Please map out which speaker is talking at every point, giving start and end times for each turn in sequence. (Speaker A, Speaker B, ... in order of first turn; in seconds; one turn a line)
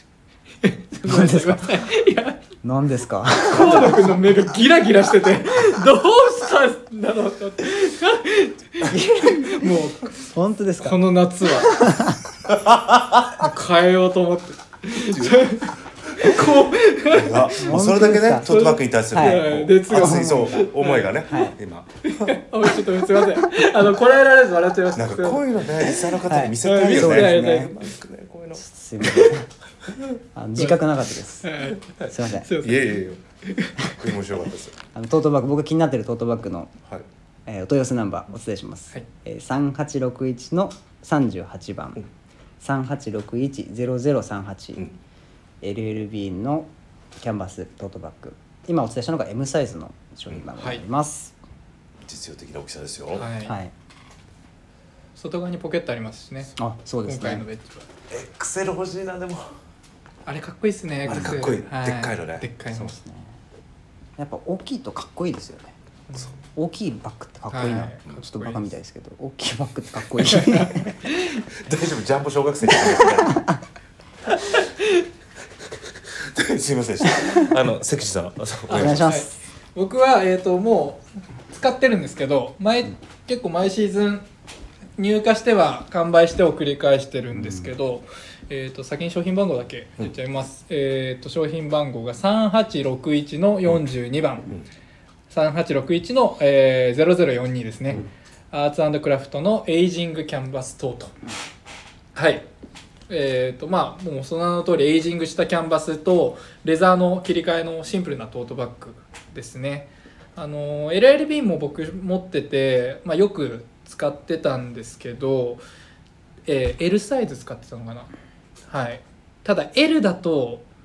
Speaker A: 0.6-2.4
Speaker B: 1.0-1.7
Speaker B: 2.6-4.2
Speaker A: 3.5-10.3
Speaker B: 8.8-11.0
Speaker A: 10.8-11.9
Speaker B: 11.6-12.2
Speaker C: 12.5-13.4
Speaker A: 13.4-17.6
Speaker C: 15.0-22.4
Speaker B: 17.5-18.5
Speaker A: 18.4-21.3
Speaker B: 19.1-20.6
Speaker B: 21.3-21.5
Speaker A: 22.0-25.4
Speaker C: 24.9-28.6
Speaker A: 26.1-27.7
Speaker B: 26.2-27.7
Speaker B: 28.5-29.5
Speaker B: 30.3-31.5
Speaker A: 30.6-30.9
Speaker A: 31.4-33.9
Speaker C: 32.0-33.2
Speaker B: 32.1-32.5
Speaker C: 33.8-34.8
Speaker B: 34.9-36.7
Speaker B: 37.5-42.0
Speaker B: 42.6-44.9
Speaker B: 45.6-51.3
Speaker C: 52.0-53.3
Speaker A: 53.1-53.5
Speaker B: 53.4-53.7
Speaker A: 55.1-56.5
Speaker B: 56.6-57.5
Speaker A: 57.0-57.9
Speaker C: 58.1-59.5
Speaker A: 60.2-62.9
Speaker C: 61.0-62.5
Speaker B: 61.1-61.4
Speaker B: 62.7-63.4
Speaker B: 64.2-65.8
Speaker A: 66.1-66.4
Speaker B: 66.5-71.0
Speaker A: 67.5-68.7
Speaker A: 70.2-71.4
Speaker C: 71.5-73.4
Speaker B: 72.9-73.6
Speaker A: 74.4-75.0
Speaker C: 75.7-79.1
Speaker B: 77.0-77.5
Speaker B: 78.7-79.3
Speaker A: 78.7-84.2
Speaker A: 85.0-94.5
Speaker B: 87.3-87.7
Speaker A: 95.3-101.2
Speaker A: 102.1-102.5
Speaker A: 103.1-115.6
Speaker A: 116.5-118.1
Speaker A: 118.7-120.6